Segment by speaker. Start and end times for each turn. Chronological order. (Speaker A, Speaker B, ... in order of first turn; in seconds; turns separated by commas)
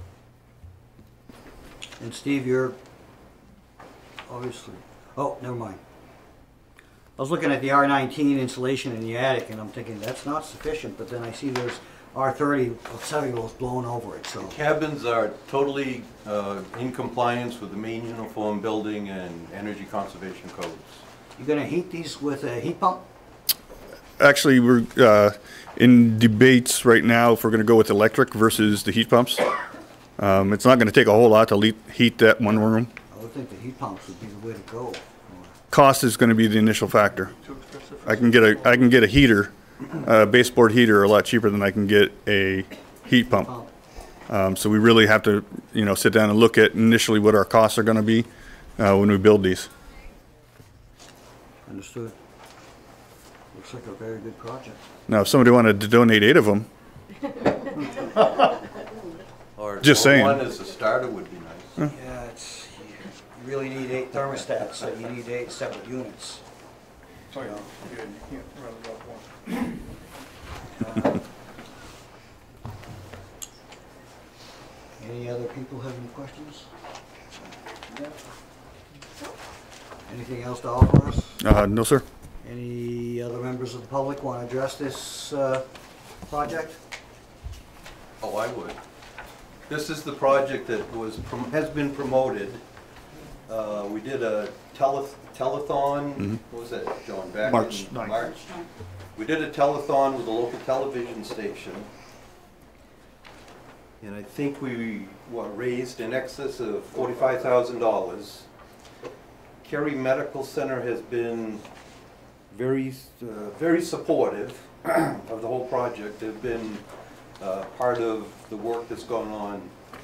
Speaker A: 2.0-2.8, Speaker A: 4.3-5.8, Speaker A: 7.2-14.6, Speaker B: 14.4-21.0, Speaker A: 21.4-23.0, Speaker C: 24.2-29.4, Speaker C: 30.2-32.9, Speaker A: 33.1-35.5, Speaker C: 35.7-37.3, Speaker D: 37.4-38.9, Speaker C: 38.1-43.5, Speaker A: 43.3-43.7, Speaker C: 44.3-49.7, Speaker A: 51.7-52.1, Speaker A: 53.5-54.8, Speaker C: 55.1-56.7, Speaker B: 59.6-61.8, Speaker C: 59.8-60.4, Speaker A: 61.8-66.4, Speaker D: 67.3-69.7, Speaker A: 70.8-71.2, Speaker A: 75.0-76.7, Speaker A: 80.1-81.4, Speaker C: 81.4-82.0, Speaker A: 82.4-85.6, Speaker A: 86.3-86.8, Speaker B: 88.2-88.8, Speaker B: 89.7-92.6, Speaker B: 93.5-101.9, Speaker C: 97.5-98.2, Speaker B: 104.0-108.5, Speaker B: 109.6-111.6, Speaker B: 112.5-116.8, Speaker B: 117.4-119.7